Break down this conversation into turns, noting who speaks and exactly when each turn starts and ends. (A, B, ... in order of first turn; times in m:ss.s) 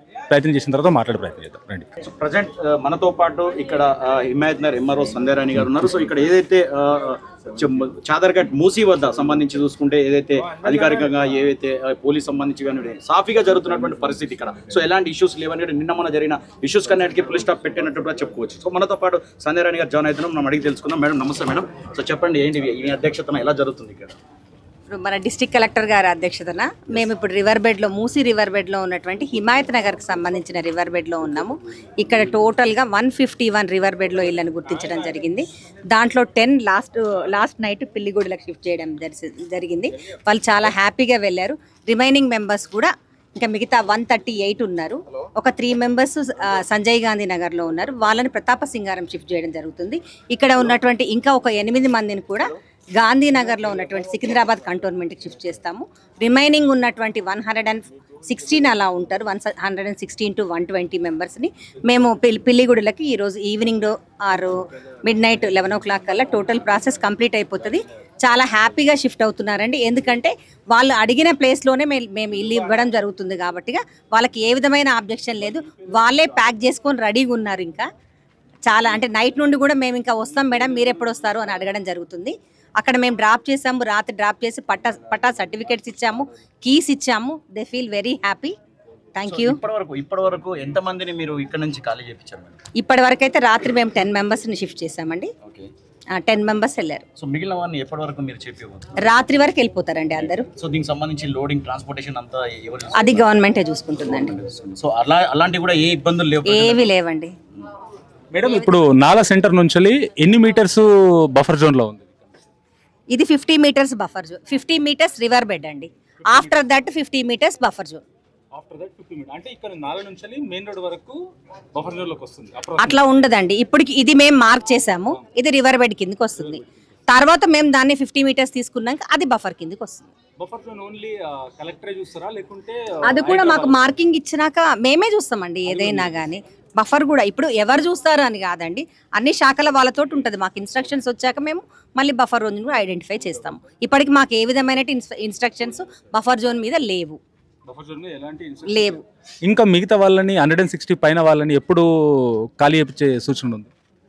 0:00.3-0:01.9 A
0:02.0-0:24.2 B
0:24.9-1:17.8 C
1:18.7-1:28.5 C
1:29.2-1:29.6 C
1:29.3-1:32.6 B
1:32.8-1:35.3 C
1:35.4-1:35.7 B
1:36.2-1:37.0 C
1:37.2-1:39.0 B
1:39.0-1:40.5 C
1:40.6-1:43.2 B
1:43.0-1:44.3 C
1:44.1-1:46.9 B
1:46.5-1:47.3 C
1:48.3-1:52.1 A
1:53.1-1:58.0 C
1:58.5-2:01.2 A
2:01.7-2:03.0 A
2:02.8-2:10.1 C
2:10.4-2:13.8 A
2:13.0-2:27.2 C
2:15.7-2:16.2 A
2:27.7-2:33.7 A
2:28.7-2:29.0 C